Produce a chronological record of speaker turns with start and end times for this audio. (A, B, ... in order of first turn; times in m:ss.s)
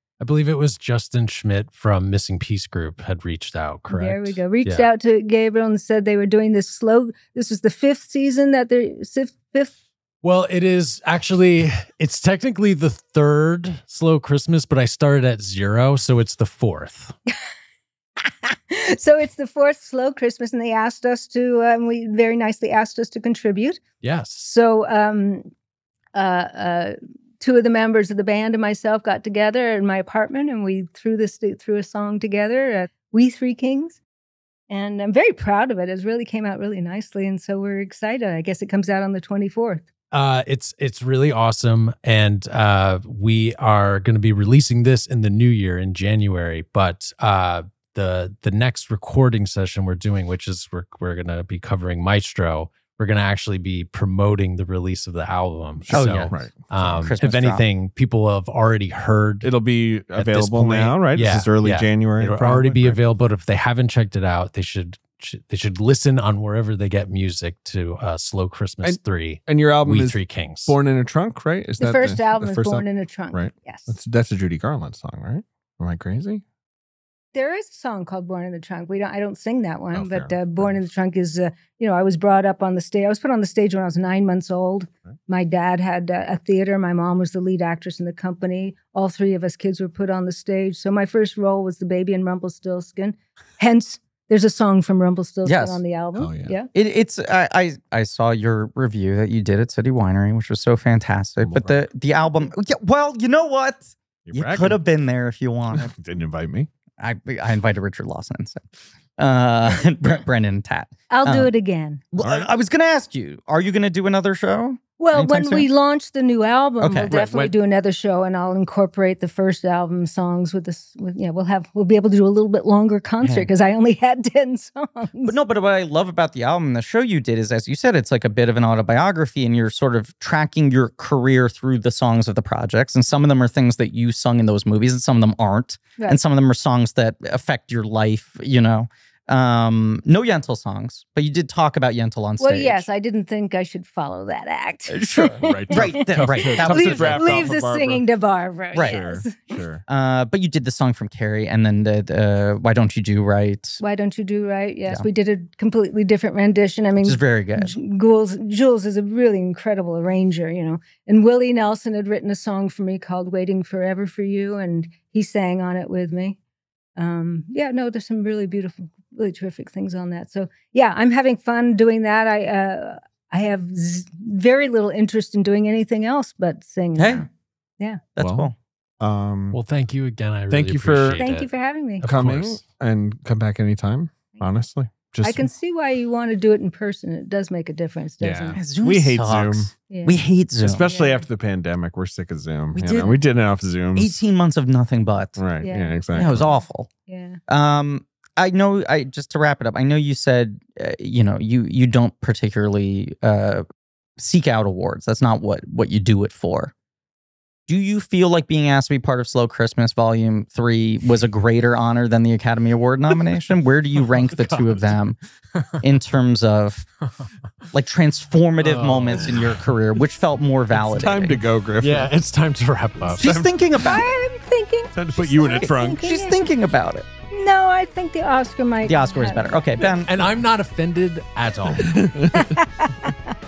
0:00.2-0:04.9 A
0:03.9-0:09.7 B
0:10.2-0:17.1 A
0:18.2-0:23.8 B
0:24.0-0:24.4 A
0:24.4-0:25.5 B
0:26.1-0:34.0 B
0:34.7-0:39.8 B
0:40.1-0:59.5 A
0:55.8-0:56.6 C
0:55.9-0:57.6 D
0:59.4-1:03.0 C
1:00.1-1:10.8 A
1:08.8-1:16.4 C
1:11.8-1:13.9 B
1:17.3-1:36.7 B
1:19.9-1:20.9 C
1:35.4-1:35.8 D
1:36.2-1:36.5 C
1:36.7-1:45.9 D
1:41.4-1:41.8 C
1:44.3-1:44.8 C
1:45.7-1:46.7 C
1:47.0-1:48.6 D
1:49.2-1:51.5 D
1:51.1-1:52.0 B
1:52.1-1:55.7 D
1:52.2-1:52.5 C
1:55.0-2:05.4 B
1:56.8-1:57.2 D
1:57.1-1:57.5 C
2:03.2-2:03.5 D
2:05.2-2:22.9 D
2:22.4-2:29.6 B
2:24.9-2:27.5 D
2:25.4-2:28.0 C
2:26.3-2:26.6 A
2:28.7-2:29.0 D
2:28.7-2:29.8 C
2:29.9-2:33.8 D
2:33.8-2:46.4 B
2:37.0-2:37.7 D
2:47.0-2:57.3 B
2:57.0-2:57.3 D
2:58.2-2:58.6 D
2:58.2-2:59.6 C
2:59.5-3:01.5 A
3:00.5-3:01.2 C
3:01.2-3:02.1 B
3:02.0-3:02.6 A
3:02.0-3:05.5 C
3:05.2-3:08.6 B
3:08.2-3:09.7 C
3:08.6-3:10.8 D
3:09.9-3:10.2 B
3:10.6-3:14.1 C
3:10.8-3:11.3 B
3:12.7-3:13.2 D
3:14.0-3:15.4 D
3:15.4-3:16.5 C
3:15.6-3:16.0 B
3:16.1-3:16.9 D
3:17.1-3:17.4 B
3:17.5-3:23.6 D
3:24.2-3:26.7 D
3:27.7-3:35.2 D
3:34.3-3:34.8 A
3:35.8-3:36.9 D
3:37.7-3:41.4 D
3:38.6-3:39.6 A
3:39.1-3:39.5 C
3:40.7-3:42.1 C
3:41.8-3:43.4 A
3:43.0-3:43.5 C
3:43.2-3:44.1 D
3:43.8-3:46.4 B
3:45.0-3:46.1 C
3:46.0-3:47.1 D
3:47.3-3:49.5 B
3:48.8-3:50.1 D
3:49.8-3:52.2 A
3:51.7-3:52.6 C
3:52.3-3:53.3 B